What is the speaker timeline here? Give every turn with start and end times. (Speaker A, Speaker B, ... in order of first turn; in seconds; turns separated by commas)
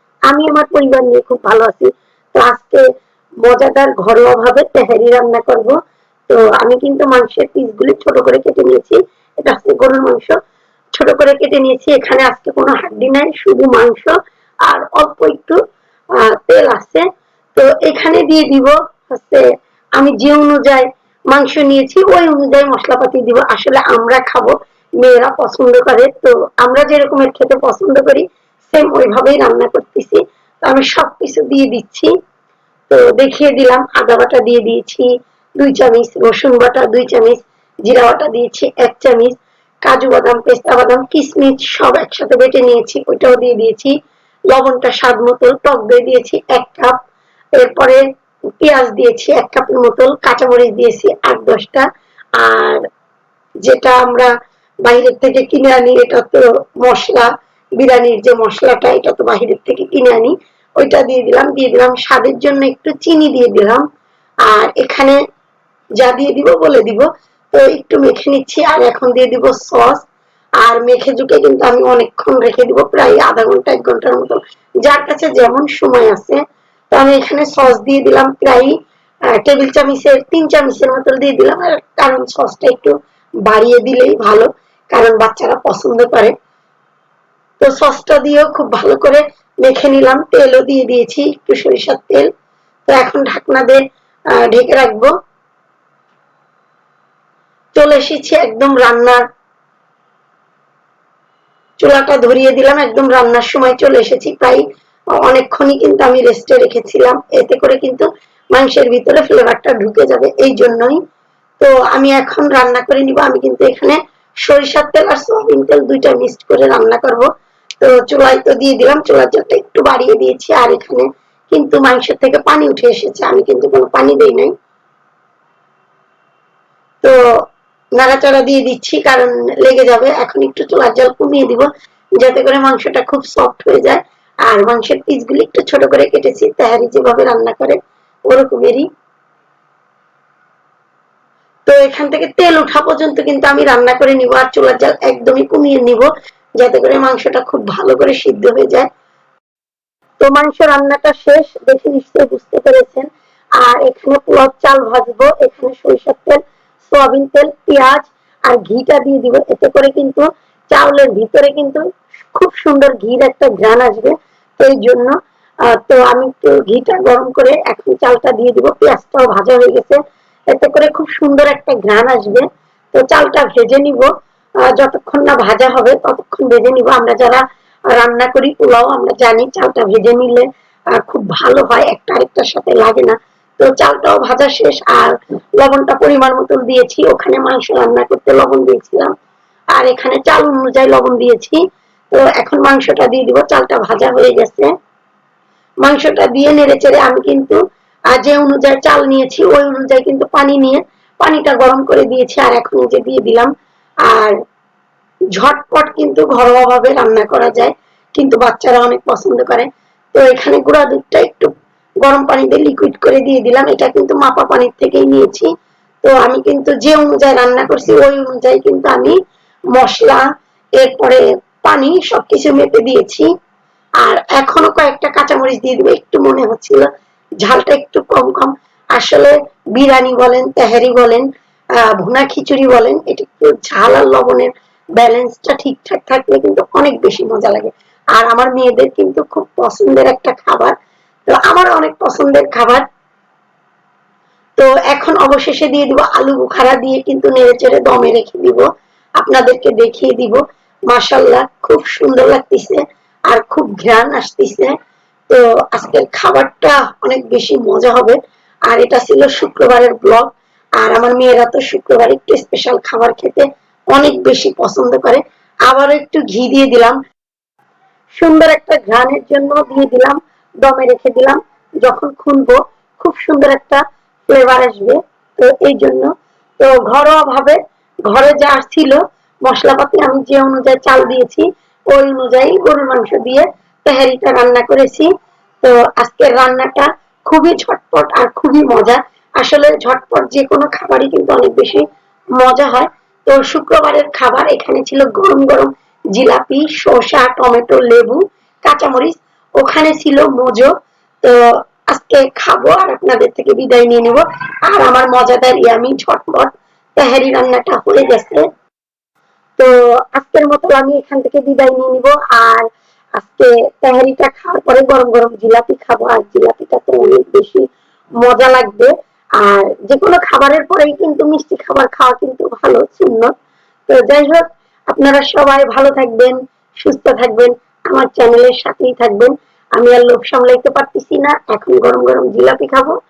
Speaker A: 0.3-2.9, Speaker A: 3.4-5.8, Speaker A: 6.3-10.3, Speaker A: 10.9-14.1, Speaker A: 14.7-15.6, Speaker A: 16.2-19.4, Speaker A: 20.0-32.1, Speaker A: 32.9-43.9, Speaker A: 44.5-47.0, Speaker A: 47.6-48.0, Speaker A: 48.6-51.9, Speaker A: 52.4-52.8, Speaker A: 53.6-54.3, Speaker A: 54.8-63.8, Speaker A: 64.5-65.2, Speaker A: 66.0-70.0, Speaker A: 70.6-78.8, Speaker A: 79.3-86.3, Speaker A: 87.6-92.3, Speaker A: 92.9-93.8, Speaker A: 94.4-95.1, Speaker A: 97.8-99.2, Speaker A: 101.8-104.6, Speaker A: 105.2-111.0, Speaker A: 111.6-117.3, Speaker A: 117.8-124.5, Speaker A: 128.0-138.9, Speaker A: 141.7-148.9, Speaker A: 150.2-153.1, Speaker A: 153.6-165.1, Speaker A: 165.7-170.0, Speaker A: 170.5-174.1, Speaker A: 174.7-189.1, Speaker A: 189.7-191.6, Speaker A: 192.1-194.7, Speaker A: 195.8-197.6, Speaker A: 198.1-203.5, Speaker A: 204.1-204.3, Speaker A: 205.3-215.5, Speaker A: 216.0-219.2, Speaker A: 219.7-220.2, Speaker A: 220.8-223.3, Speaker A: 224.0-226.9, Speaker A: 227.4-231.2, Speaker A: 231.9-240.7, Speaker A: 241.3-242.8, Speaker A: 244.6-248.7, Speaker A: 249.2-254.8, Speaker A: 255.3-267.0, Speaker A: 268.2-285.1, Speaker A: 285.6-291.9, Speaker A: 292.4-300.7, Speaker A: 301.9-308.4, Speaker A: 309.6-312.7, Speaker A: 313.2-317.7, Speaker A: 318.2-323.3, Speaker A: 323.9-332.9